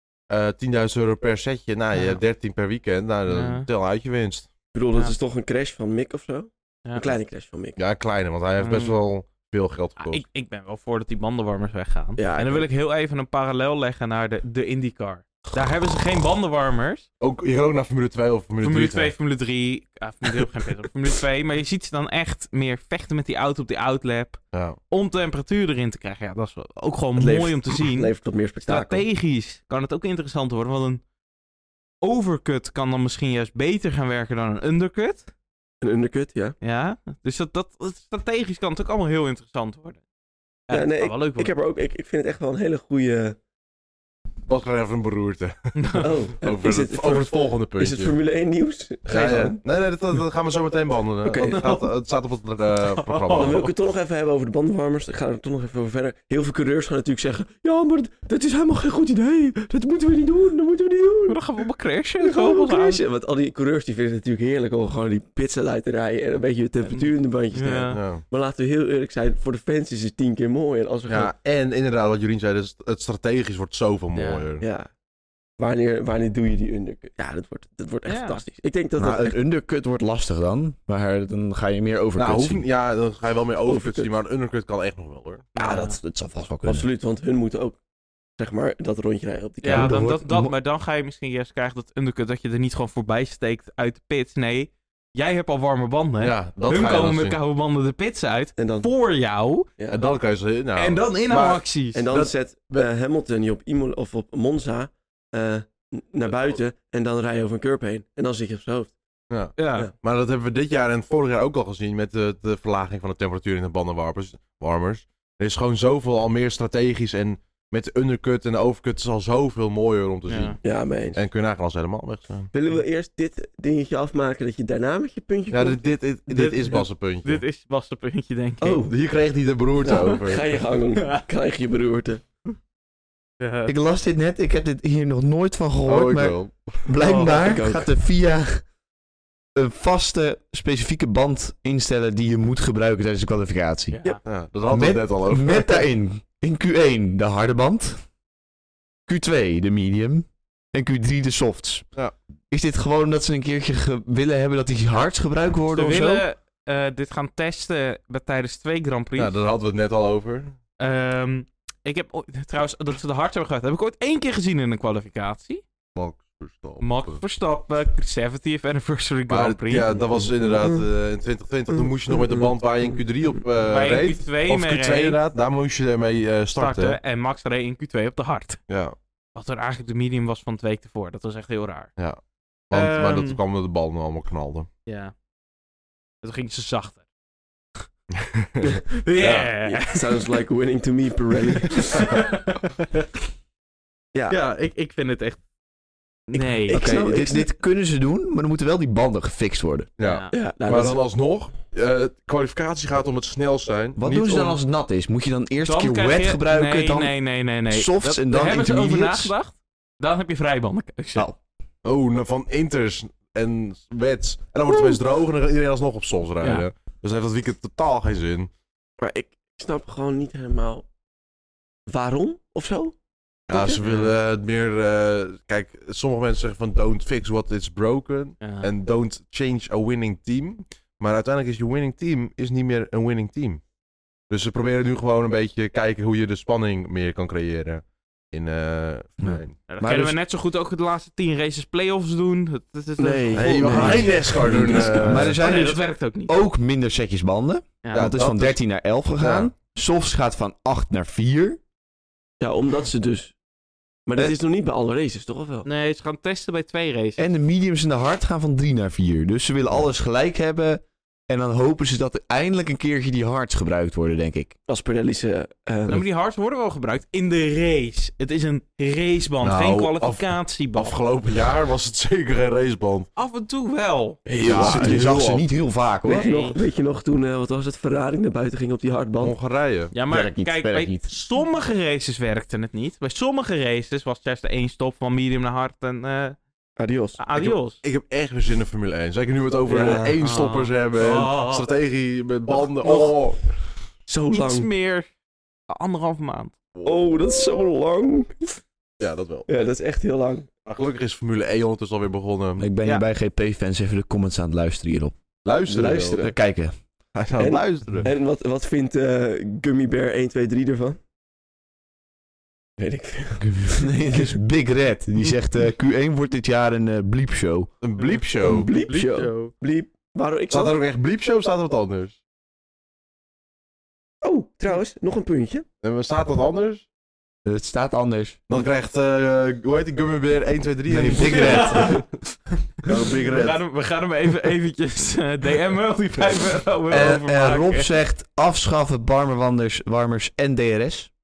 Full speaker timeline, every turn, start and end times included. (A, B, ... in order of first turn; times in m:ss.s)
0:00.3-0:04.5 A
0:01.9-0:02.2 B
0:03.3-0:03.7 B
0:04.7-0:07.8 C
0:07.8-0:10.2 A
0:08.6-0:09.0 B
0:10.0-0:17.1 B
0:12.2-0:12.7 C
0:17.2-0:19.1 A
0:18.6-0:28.1 B
0:27.2-0:29.0 C
0:28.6-0:31.0 B
0:32.0-0:35.3 B
0:35.8-0:36.6 C
0:36.6-0:40.0 B
0:40.7-0:41.5 B
0:40.7-0:43.4 C
0:44.5-0:48.2 A
0:45.8-0:46.1 B
0:46.0-0:49.6 C
0:49.1-0:53.7 A
0:51.2-0:51.7 C
0:51.4-0:51.9 B
0:52.8-0:53.7 B
0:53.3-1:01.4 C
1:01.3-1:03.0 B
1:02.2-1:11.3 C
1:06.9-1:08.0 B
1:07.9-1:08.2 A
1:11.1-1:14.6 A
1:14.1-1:14.5 B
1:14.6-1:14.9 C
1:15.6-1:19.4 C
1:18.0-1:18.4 B
1:19.0-1:22.6 D
1:22.2-1:25.5 A
1:23.6-1:24.2 C
1:25.5-1:26.0 B
1:25.6-1:26.8 D
1:26.6-1:27.8 C
1:28.4-1:30.0 C
1:29.6-1:39.7 B
1:29.7-1:30.5 D
1:36.2-1:37.4 A
1:38.6-1:38.9 C
1:39.8-1:40.0 C
1:39.9-1:42.9 A
1:40.8-1:42.0 B
1:41.9-1:48.9 C
1:49.3-2:00.6 A
1:49.6-1:49.9 B
2:00.3-2:00.6 B
2:00.6-2:01.2 C
2:01.1-2:02.5 A
2:02.5-2:05.8 C
2:05.5-2:07.4 A
2:06.3-2:08.8 B
2:08.6-2:08.9 C
2:08.8-2:10.5 A
2:09.8-2:12.2 C
2:11.0-2:11.2 B
2:13.4-2:13.7 B
2:13.7-2:18.6 D
2:15.8-2:16.9 A
2:17.0-2:17.4 B
2:17.3-2:17.9 C
2:19.5-2:24.0 D
2:23.9-2:24.2 B
2:24.2-2:25.7 A
2:24.7-2:28.0 D
2:29.1-2:31.8 D
2:32.5-2:36.2 D
2:35.7-2:39.4 B
2:39.2-2:40.5 A
2:40.8-2:45.6 B
2:45.9-2:47.2 A
2:46.8-2:50.0 B
2:49.3-2:57.0 A
2:52.1-2:52.5 C
2:53.6-2:55.2 B
2:56.6-2:58.6 B
2:58.7-2:59.0 A
2:59.3-3:01.9 B
3:02.7-3:03.4 B
3:02.7-3:04.7 A
3:04.8-3:05.1 B
3:06.2-3:07.0 B
3:08.1-3:09.5 A
3:08.9-3:10.3 B
3:09.6-3:12.2 C
3:11.8-3:13.0 B
3:14.3-3:15.4 B
3:16.3-3:17.1 B
3:16.3-3:17.5 C
3:16.7-3:19.9 D
3:20.0-3:24.6 A
3:20.0-3:20.3 B
3:20.3-3:21.0 C
3:24.0-3:27.1 D
3:25.6-3:31.3 B
3:27.7-3:29.3 D
3:31.8-3:38.5 A
3:36.4-3:36.6 B
3:39.0-3:40.8 C
3:41.9-3:42.9 C
3:43.5-3:53.6 A
3:43.5-3:43.8 C
3:43.8-3:44.1 B
3:48.4-3:48.7 B
3:54.3-3:59.5 A
3:59.2-4:00.2 D
3:59.7-4:06.3 B
4:03.0-4:05.2 C
4:03.4-4:05.4 A
4:05.0-4:11.6 D
4:07.8-4:08.1 B
4:07.9-4:08.6 A
4:09.2-4:09.5 A
4:12.4-4:13.3 C
4:14.1-4:15.7 C
4:15.6-4:17.2 B
4:17.2-4:24.5 D
4:24.7-4:26.0 C
4:25.9-4:31.0 B
4:29.4-4:33.1 A
4:33.2-4:34.2 B
4:34.2-4:35.1 C
4:34.4-4:35.4 A
4:34.4-4:36.3 D
4:36.0-4:39.3 C
4:36.1-4:36.6 B
4:39.2-4:39.9 A
4:39.9-4:46.4 B
4:40.1-4:41.1 D
4:46.8-4:47.4 C
4:47.2-4:47.8 B
4:47.4-4:53.5 A
4:49.7-4:50.2 C
4:49.8-4:51.7 B
4:54.1-4:54.7 C
4:54.3-4:55.1 B
4:55.7-4:56.5 B
4:56.7-4:57.0 A
4:56.8-4:58.6 C
4:59.0-4:59.5 A
4:59.5-5:00.5 C
5:00.6-5:02.6 A
5:02.6-5:05.1 D
5:05.4-5:06.2 A
5:05.6-5:06.3 C
5:06.2-5:06.7 D
5:07.1-5:08.1 A
5:07.4-5:11.0 C
5:12.8-5:14.3 C
5:13.4-5:17.7 D
5:17.8-5:18.9 A
5:18.0-5:19.5 B
5:18.4-5:20.8 C
5:20.5-5:22.2 A
5:24.2-5:25.6 C
5:25.8-5:26.8 A
5:27.4-5:28.4 D
5:28.5-5:32.0 A
5:30.9-5:32.0 D
5:31.1-5:32.0 B
5:32.8-5:37.9 B
5:32.8-5:33.6 A
5:36.9-5:41.1 D